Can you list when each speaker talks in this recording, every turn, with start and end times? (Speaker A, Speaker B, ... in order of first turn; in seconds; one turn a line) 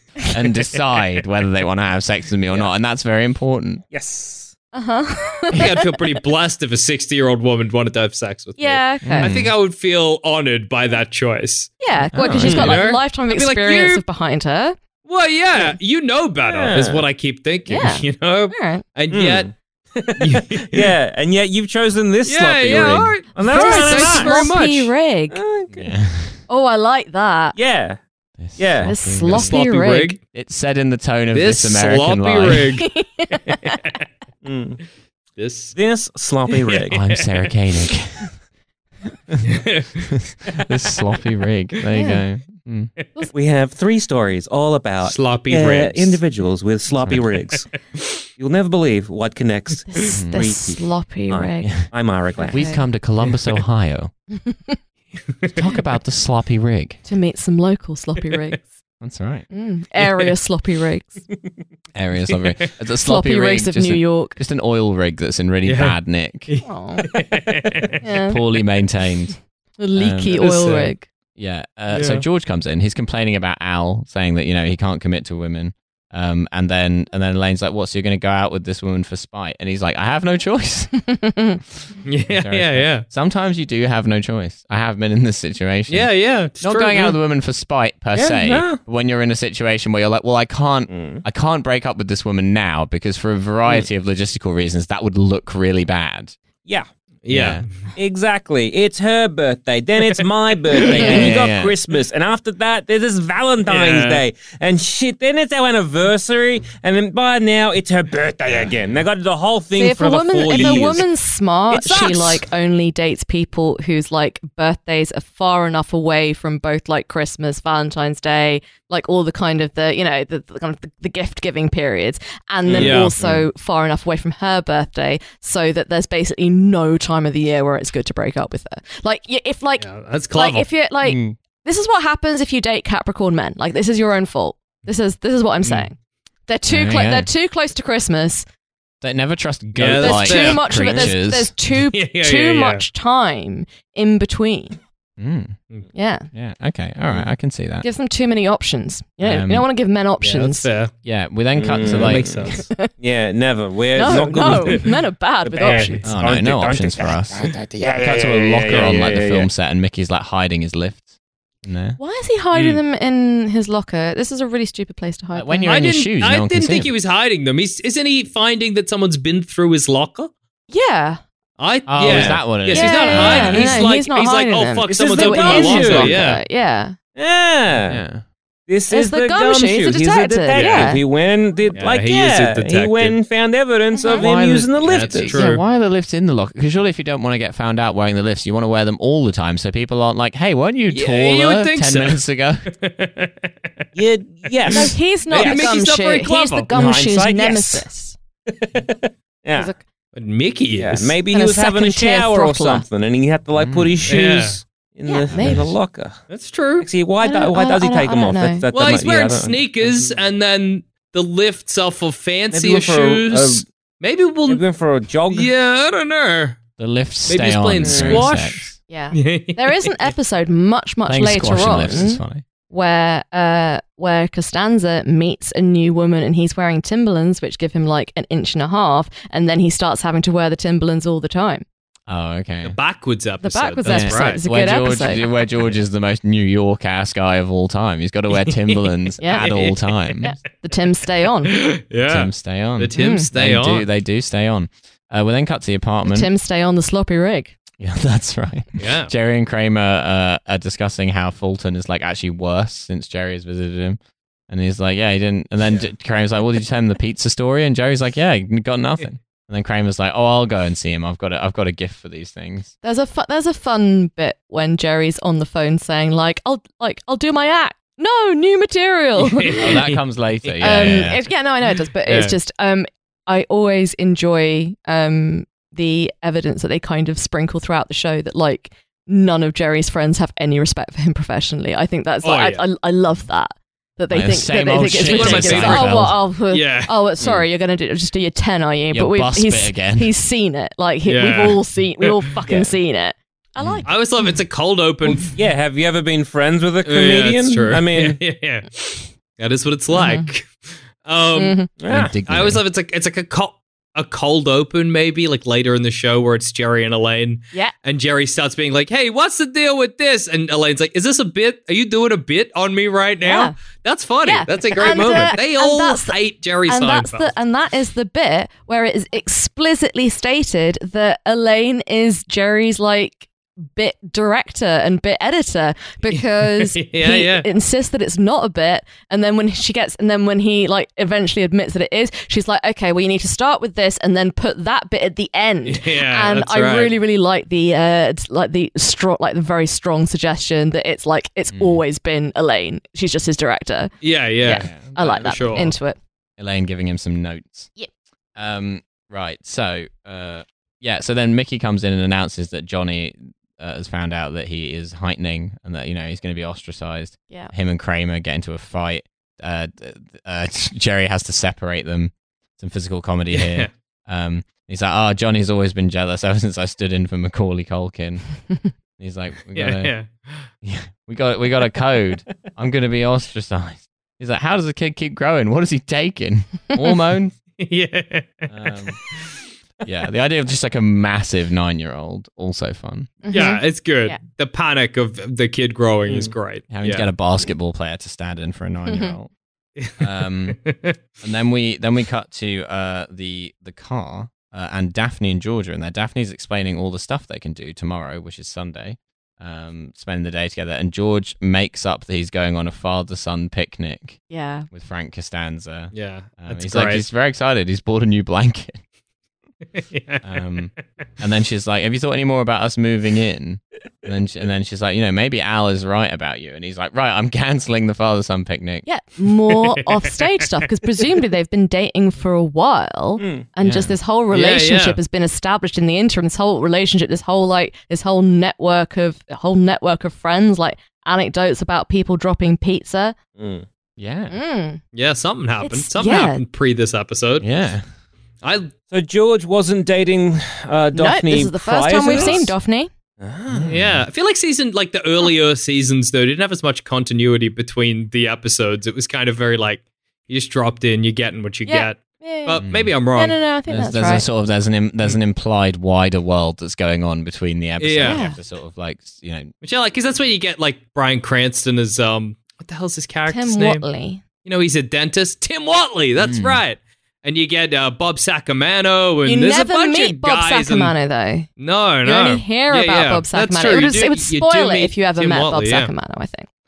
Speaker A: 0.3-3.8
Speaker B: 3.9-4.5
Speaker C: 4.7-6.1
Speaker D: 5.5-14.0
Speaker C: 8.6-9.3
Speaker A: 9.0-9.5
Speaker C: 11.8-14.8
Speaker A: 12.0-12.8
Speaker D: 15.0-19.5
Speaker B: 16.4-17.0
Speaker C: 17.7-18.8
Speaker B: 19.1-24.4
Speaker D: 20.2-20.9
Speaker D: 22.2-24.9
Speaker C: 23.4-25.4
Speaker B: 25.3-25.9
Speaker A: 25.7-26.4
Speaker C: 26.5-27.6
Speaker B: 27.5-28.0
Speaker A: 28.4-29.6
Speaker B: 28.6-28.9
Speaker C: 28.8-30.2
Speaker D: 29.3-30.2
Speaker A: 30.3-32.7
Speaker D: 31.3-33.9
Speaker C: 32.8-33.8
Speaker B: 34.4-34.8
Speaker D: 35.4-35.8
Speaker B: 35.7-37.0
Speaker D: 36.5-37.4
Speaker A: 36.9-38.3
Speaker D: 39.5-39.9
Speaker A: 40.2-42.9
Speaker C: 41.9-42.2
Speaker B: 43.3-47.8
Speaker D: 45.0-46.2
Speaker B: 48.4-52.7
Speaker C: 49.9-52.8
Speaker A: 50.1-50.4
Speaker A: 51.6-51.9
Speaker A: 52.5-54.1
Speaker D: 53.2-53.6
Speaker C: 54.5-54.8
Speaker A: 55.5-57.0
Speaker C: 57.0-58.7
Speaker A: 59.0-59.5
Speaker C: 59.5-61.2
Speaker D: 60.0-60.3
Speaker A: 61.9-66.5
Speaker C: 63.0-64.4
Speaker D: 65.6-66.0
Speaker D: 66.5-68.0
Speaker C: 66.6-67.1
Speaker C: 68.0-68.4
Speaker A: 68.3-69.3
Speaker C: 69.8-71.0
Speaker A: 70.0-70.4
Speaker D: 70.4-70.9
Speaker A: 71.3-80.9
Speaker D: 71.9-72.2
Speaker C: 81.1-81.6
Speaker D: 82.0-83.0
Speaker A: 82.3-96.3
Speaker D: 85.9-87.2
Speaker B: 88.1-88.8
Speaker B: 90.9-91.2
Speaker D: 97.2-97.7
Speaker A: 97.3-97.6
Speaker B: 98.0-111.1
Speaker D: 100.8-101.3
Speaker A: 101.0-101.7
Speaker C: 101.0-101.3
Speaker D: 103.6-104.2
Speaker C: 109.7-135.9
Speaker D: 110.5-110.8
Speaker B: 111.7-112.4
Speaker B: 122.6-123.0
Speaker D: 122.7-123.1
Speaker A: 123.2-123.4
Speaker D: 129.8-130.7
Speaker A: 131.0-131.3
Speaker C: 136.5-138.4
Speaker A: 136.7-137.3
Speaker A: 139.0-141.5
Speaker D: 139.8-141.1
Speaker C: 140.0-144.8
Speaker D: 141.7-142.8
Speaker A: 145.2-145.6
Speaker C: 145.9-146.3
Speaker A: 146.3-147.8
Speaker C: 147.8-150.7
Speaker A: 149.2-149.6
Speaker D: 150.2-150.9
Speaker A: 151.0-152.6
Speaker B: 151.5-159.5
Speaker D: 151.8-152.6
Speaker C: 152.5-152.9
Speaker C: 153.9-156.0
Speaker D: 154.5-154.8
Speaker D: 155.6-156.0
Speaker A: 156.0-161.1
Speaker A: 161.6-162.0
Speaker C: 162.0-165.7
Speaker D: 162.5-162.8
Speaker A: 165.3-166.9
Speaker D: 165.6-170.3
Speaker C: 170.7-171.2
Speaker D: 171.6-176.4
Speaker A: 171.9-173.8
Speaker C: 172.7-176.9
Speaker B: 173.4-173.9
Speaker B: 174.9-176.2
Speaker B: 177.1-178.0
Speaker A: 177.9-178.2
Speaker B: 178.7-185.4
Speaker C: 178.9-181.0
Speaker D: 180.5-180.9
Speaker D: 181.7-183.2
Speaker C: 183.9-184.3
Speaker A: 184.1-192.7
Speaker D: 184.8-185.6
Speaker D: 190.9-193.8
Speaker B: 193.9-195.7
Speaker D: 194.7-196.7
Speaker C: 194.7-198.2
Speaker B: 196.7-197.8
Speaker B: 198.5-199.7
Speaker C: 199.5-199.8
Speaker D: 200.1-201.2
Speaker B: 200.8-206.2
Speaker C: 201.3-202.8
Speaker A: 203.6-204.2
Speaker D: 204.1-204.6
Speaker C: 205.1-205.6
Speaker A: 205.4-205.7
Speaker D: 206.3-206.9
Speaker B: 206.8-210.2
Speaker C: 207.2-208.7
Speaker D: 208.7-214.6
Speaker B: 212.5-213.6
Speaker B: 214.5-215.5
Speaker D: 215.3-216.6
Speaker A: 216.8-218.8
Speaker D: 217.3-220.0
Speaker B: 217.8-218.3
Speaker C: 218.9-231.6
Speaker A: 221.1-222.4
Speaker A: 232.1-232.8
Speaker D: 232.6-234.4
Speaker C: 233.4-235.2
Speaker A: 233.8-240.3
Speaker D: 238.3-240.2
Speaker C: 239.2-239.5
Speaker C: 240.2-241.6
Speaker D: 241.4-243.8
Speaker A: 242.1-246.3
Speaker C: 242.9-243.3
Speaker C: 246.1-247.5
Speaker A: 247.8-262.7
Speaker D: 248.8-249.1
Speaker C: 262.8-269.6
Speaker D: 269.2-270.6
Speaker A: 269.6-271.2
Speaker C: 270.6-294.3
Speaker D: 272.1-272.4
Speaker D: 282.2-282.6
Speaker A: 284.1-286.2
Speaker D: 285.0-286.9
Speaker A: 288.9-290.1
Speaker D: 291.0-292.1
Speaker B: 292.4-292.7
Speaker A: 293.6-293.9
Speaker D: 293.9-295.3
Speaker B: 295.3-298.2
Speaker D: 296.8-317.3
Speaker C: 299.9-300.3
Speaker C: 301.3-301.7
Speaker B: 301.8-302.1
Speaker A: 301.9-302.6
Speaker C: 313.2-313.5
Speaker C: 314.2-346.0
Speaker B: 314.8-315.4
Speaker D: 326.1-327.5
Speaker D: 335.6-336.9
Speaker A: 341.5-341.8
Speaker D: 344.0-345.7
Speaker A: 344.6-345.7
Speaker A: 346.4-347.7
Speaker A: 348.4-368.3
Speaker D: 363.3-363.7
Speaker A: 369.0-369.9
Speaker D: 369.5-370.5
Speaker A: 370.6-377.3
Speaker D: 377.6-378.5
Speaker A: 378.5-379.0
Speaker D: 379.1-379.4
Speaker A: 379.8-383.1
Speaker C: 383.2-384.2
Speaker D: 383.3-387.1
Speaker A: 386.7-389.3
Speaker C: 388.9-389.1
Speaker A: 390.0-390.6
Speaker D: 390.6-390.9
Speaker A: 391.2-408.8
Speaker C: 404.3-404.7
Speaker D: 405.9-407.1
Speaker D: 409.8-410.2
Speaker A: 410.2-418.9
Speaker C: 418.9-433.1
Speaker D: 419.8-420.2
Speaker B: 423.2-423.4
Speaker A: 423.6-423.9
Speaker D: 424.3-425.0
Speaker B: 433.4-433.7
Speaker A: 434.0-434.4
Speaker C: 434.3-434.8
Speaker D: 434.9-437.5
Speaker C: 435.6-436.4
Speaker A: 437.4-437.8
Speaker D: 438.4-438.7
Speaker B: 438.9-442.5
Speaker C: 440.9-442.9
Speaker D: 442.1-442.4
Speaker B: 443.2-443.7
Speaker A: 443.5-444.1
Speaker D: 443.7-453.4
Speaker C: 451.6-454.2
Speaker A: 452.6-452.9
Speaker A: 453.7-459.5
Speaker D: 457.8-458.2
Speaker C: 458.0-458.4
Speaker D: 459.6-463.8
Speaker C: 463.3-464.2
Speaker D: 464.4-470.9
Speaker A: 466.2-466.6
Speaker C: 469.2-471.5
Speaker D: 471.6-475.9
Speaker C: 472.0-476.5